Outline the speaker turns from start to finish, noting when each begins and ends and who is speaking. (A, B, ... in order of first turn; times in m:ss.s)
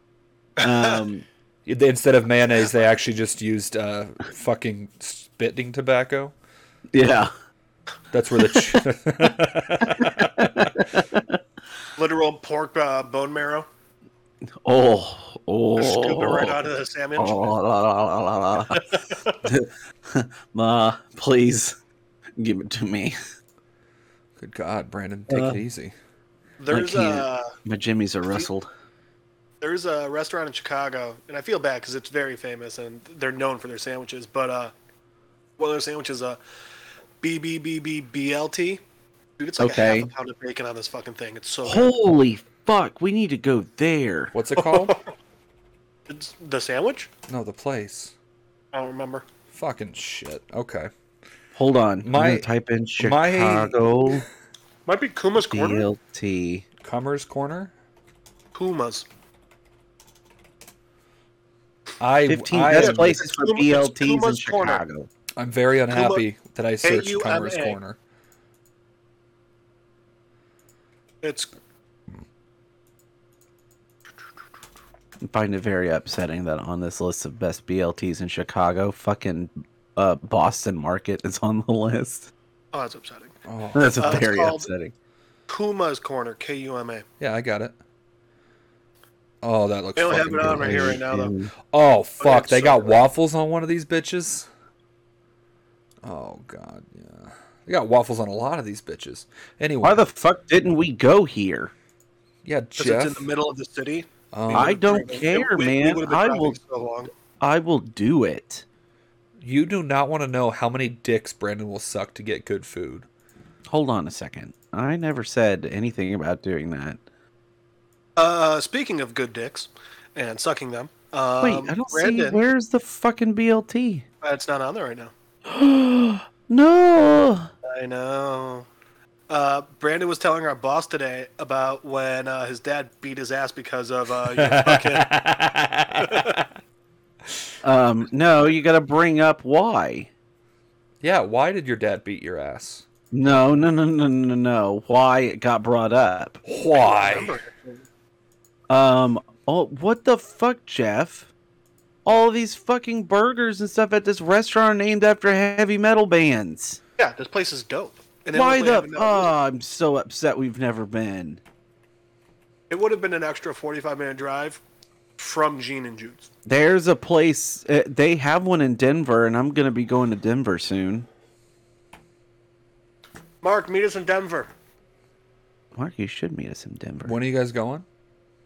0:00.6-0:01.0 A
0:00.6-0:01.2 B
0:01.6-0:06.3 C
0:06.9-0:07.3 B
0:08.1-0:10.7 C
0:09.7-0:11.4 B
0:12.0-0:13.7 A
0:14.6-0:16.6 B
0:15.8-0:17.5 A
0:17.2-0:21.8 B
0:18.7-0:19.4 A
0:22.4-0:23.2 B
0:24.4-0:25.9 C
0:25.3-0:25.6 B
0:26.6-0:27.5 A
0:26.7-0:28.7 B
0:29.6-0:34.7 A
0:35.6-0:36.4 A
0:37.2-0:38.8 A
0:39.4-0:41.9 A
0:39.6-0:40.1 B
0:41.6-0:44.3 B
0:44.3-0:45.0 C
0:44.6-0:45.0 A
0:46.1-0:47.1 A
0:47.3-0:48.1 C
0:48.7-0:49.2 A
0:49.5-0:50.9 C
0:51.6-0:54.2 B
0:52.0-0:52.5 C
0:53.0-0:54.2 C
0:54.9-0:55.8 A
0:55.5-0:56.6 B
0:56.8-0:57.7 C
0:58.5-0:59.0 A
1:02.0-1:03.2 C
1:02.3-1:05.1 B
1:02.7-1:04.8 A
1:05.4-1:08.0 C
1:05.9-1:06.2 A
1:06.8-1:07.8 A
1:11.2-1:11.5 A
1:15.2-1:22.3 B
1:22.7-1:23.3 A
1:23.4-1:24.1 C
1:23.7-1:24.9 B
1:24.0-1:24.7 A
1:25.5-1:27.0 A
1:27.2-1:27.8 C
1:29.4-1:31.0 C
1:30.0-1:31.3 A
1:30.4-1:31.5 B
1:31.7-1:34.5 C
1:32.2-1:33.0 A
1:36.0-1:40.0 C
1:39.8-1:41.7 B
1:42.4-1:43.2 C
1:42.8-1:47.1 A
1:44.3-1:44.8 C
1:44.5-1:46.6 B
1:47.4-1:48.6 B
1:49.4-1:53.1 C
1:53.7-1:57.0 B
1:58.2-2:02.4 A
2:01.4-2:04.0 B
2:04.2-2:05.1 A
2:05.4-2:07.5 B
2:07.6-2:08.7 A
2:09.3-2:15.2 A
2:14.3-2:16.4 C
2:16.0-2:16.3 A
2:17.6-2:20.1 B
2:21.0-2:22.8 C
2:23.1-2:26.4 B
2:26.4-2:27.3 C
2:26.7-2:27.8 A
2:28.7-2:31.3 B
2:32.0-2:36.8 B
2:37.0-2:39.3 A
2:38.3-2:41.4 B
2:42.7-2:44.6 A
2:45.2-2:46.3 A
2:46.4-2:51.1 B
2:53.4-2:54.5 A
2:55.7-2:57.1 B
2:57.0-2:57.8 C